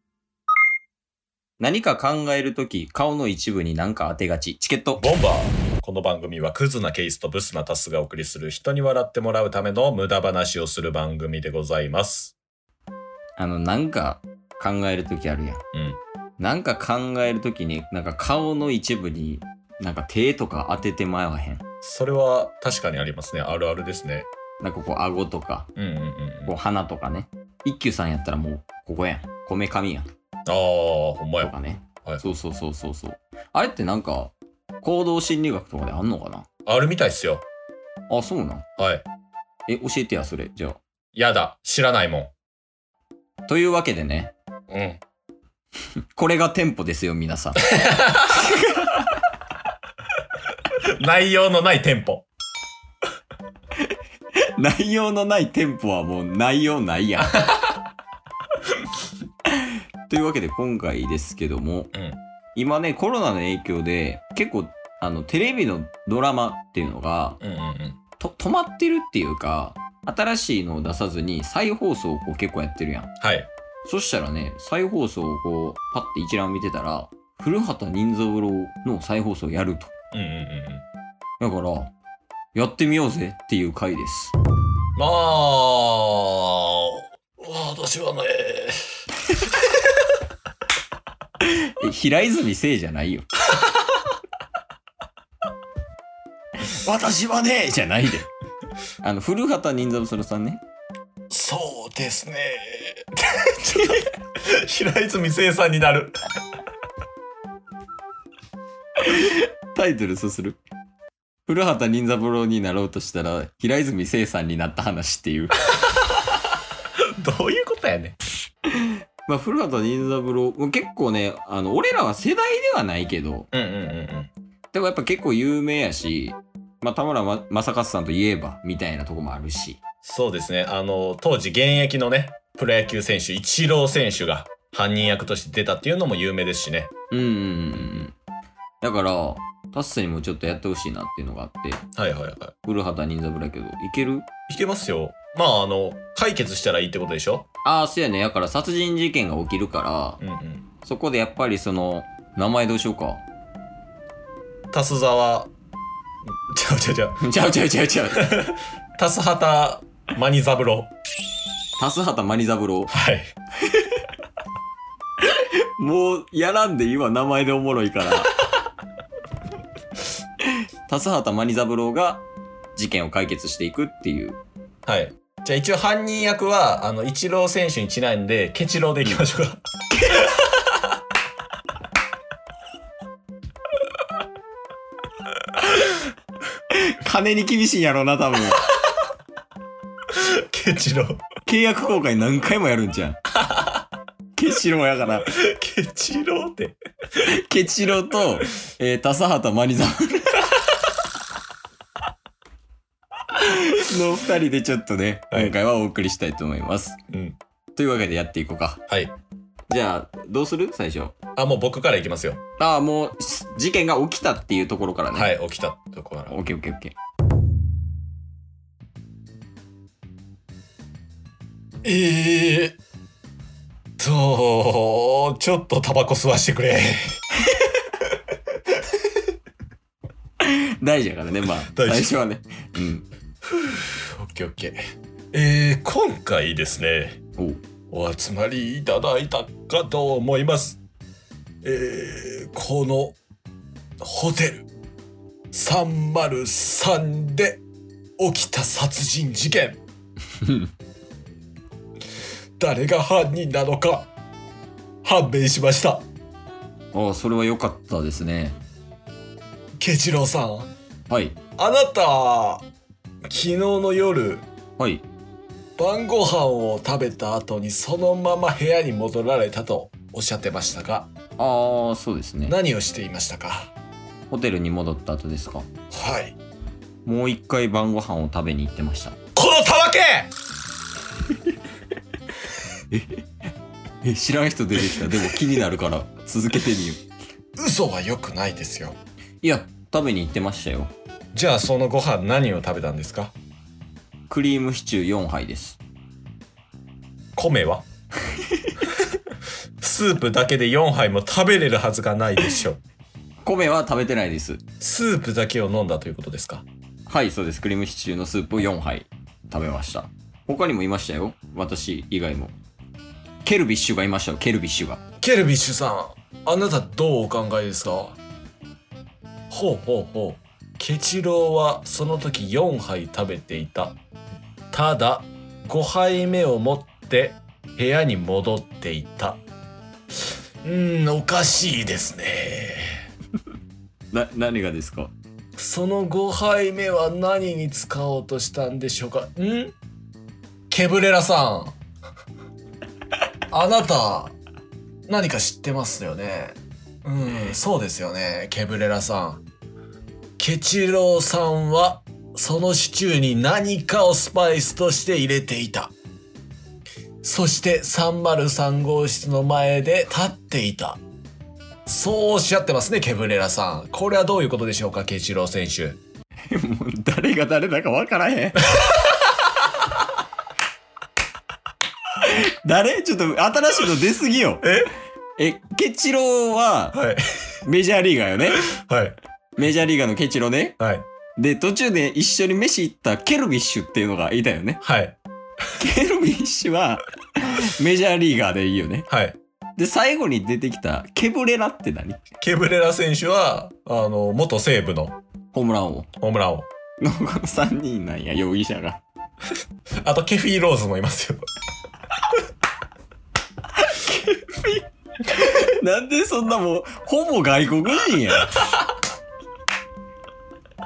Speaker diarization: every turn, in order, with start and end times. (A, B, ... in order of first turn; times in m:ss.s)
0:01.6-0:05.0 A
0:05.0-0:12.4 B
0:13.4-0:15.6 A
0:15.7-0:16.0 B
0:16.4-0:21.6 A
0:21.8-0:24.3 B
0:24.6-0:25.7 A
0:25.8-0:26.5 B
0:26.5-0:30.1 A
0:30.5-0:32.2 B
0:31.4-0:36.4 A
0:36.6-0:37.4 B
0:38.1-0:38.6 A
0:38.8-0:39.0 B
0:39.7-0:40.8 A
0:41.1-0:42.3 B
0:43.5-0:44.3 A
0:44.7-0:45.0 B
0:46.1-0:47.7 A
0:47.7-0:48.4 B
0:48.2-0:49.1 A
0:50.8-0:52.2 B
0:53.8-0:57.6 A
0:59.5-1:01.9 A
1:02.5-1:07.4 A
1:07.4-1:08.0 B
1:08.2-1:13.1 A
1:13.2-1:13.5 B
1:13.8-1:19.9 A
1:20.1-1:20.8 B
1:21.4-1:21.9 A
1:22.5-1:24.3 A
1:25.0-1:29.0 B
1:31.4-1:33.2 A
1:36.6-1:38.3 A
1:39.0-1:40.6 A
1:41.3-1:46.2 B
1:49.0-1:50.6 A
1:51.5-1:55.6 A
1:57.2-1:58.2 B
1:58.7-2:03.5 A
2:03.5-2:04.3 B
2:04.7-2:09.8 A
2:10.0-2:16.9 B
2:17.1-2:18.1 A
2:18.8-2:21.8 A
2:22.0-2:22.5 B
2:22.6-2:24.3 A
2:24.5-2:27.4 B
2:27.6-2:30.2 A
2:30.2-2:30.6 B
2:30.8-2:33.2 A
2:34.7-2:35.5 B
2:36.2-2:37.2 B
2:37.2-2:38.4 A
2:38.1-2:40.9 B
2:41.8-2:42.9 A
2:42.9-2:43.3 B
2:43.6-2:44.0 A
2:45.2-2:48.4 A
2:50.4-2:52.2 A
2:52.7-2:54.4 A
2:54.8-3:00.5 B
2:59.9-3:00.3 A
3:06.7-3:08.6 A
3:10.1-3:11.2 B
3:11.4-3:13.2 A
3:14.4-3:15.4 A
3:15.2-3:16.8 B
3:17.2-3:20.6 A
3:23.3-3:27.0 A
3:27.1-3:27.4 B
3:27.8-3:28.8 A
3:29.7-3:31.1 A
3:31.4-3:32.4 B
3:32.6-3:35.3 A
3:35.1-3:36.4 B
3:36.3-3:36.9 A
3:41.8-3:42.8 B
3:44.0-3:47.2 B
3:50.4-3:53.1 A
3:51.7-3:52.2 B
3:53.4-3:54.8 B
3:55.3-3:57.2 B
3:57.9-4:00.8 B
4:01.6-4:03.2 B
4:04.0-4:04.7 B
4:05.5-4:07.6 B
4:08.2-4:09.8 B
4:12.6-4:14.1 B
4:15.0-4:16.0 B
4:16.9-4:18.6 A
4:19.8-4:20.7 B
4:21.1-4:21.3 A
4:21.6-4:22.6 B
4:23.3-4:24.4 B
4:24.8-4:25.0 A
4:25.8-4:31.1 B
4:31.4-4:32.6 A
4:32.4-4:33.7 B
4:34.3-4:35.6 A
4:35.9-4:36.4 B
4:37.0-4:39.2 A
4:39.4-4:40.3 B
4:42.9-4:43.2 A
4:44.0-4:47.0 A
4:47.6-4:49.0 B
4:49.4-4:50.9 A
4:51.3-4:53.3 B
4:54.3-4:55.8 A
4:57.4-4:57.8 B
4:58.4-4:58.7 A
4:59.8-5:02.8 B
5:03.4-5:04.6 A
5:04.8-5:06.6 B
5:07.1-5:12.5 A
5:13.4-5:15.0 A
5:15.2-5:18.2 B
5:19.5-5:24.0 B
5:24.7-5:29.4 B
5:30.6-5:33.0 B
5:34.1-5:35.1 A
5:35.6-5:39.7 B
5:40.7-5:41.8 B
5:43.5-5:44.4 B
5:45.1-5:49.4 B
5:50.4-5:55.9 B
5:57.2-6:01.0 B
6:01.8-6:06.0 B
6:06.5-6:08.7 A
6:12.2-6:14.6 A
6:14.6-6:14.9 B
6:15.4-6:17.0 A
6:16.9-6:17.2 B
6:17.6-6:18.6 A
6:18.6-6:19.2 B
6:19.6-6:20.8 A
6:20.8-6:21.0 B
6:21.4-6:24.8 A
6:24.8-6:25.2 B
6:25.8-6:29.1 A
6:29.1-6:29.4 B
6:29.8-6:32.2 A
6:32.4-6:35.2 B
6:35.5-6:36.1 A
6:36.2-6:36.7 B
6:37.0-6:39.0 A
6:40.0-6:41.4 B
6:43.7-6:48.7 A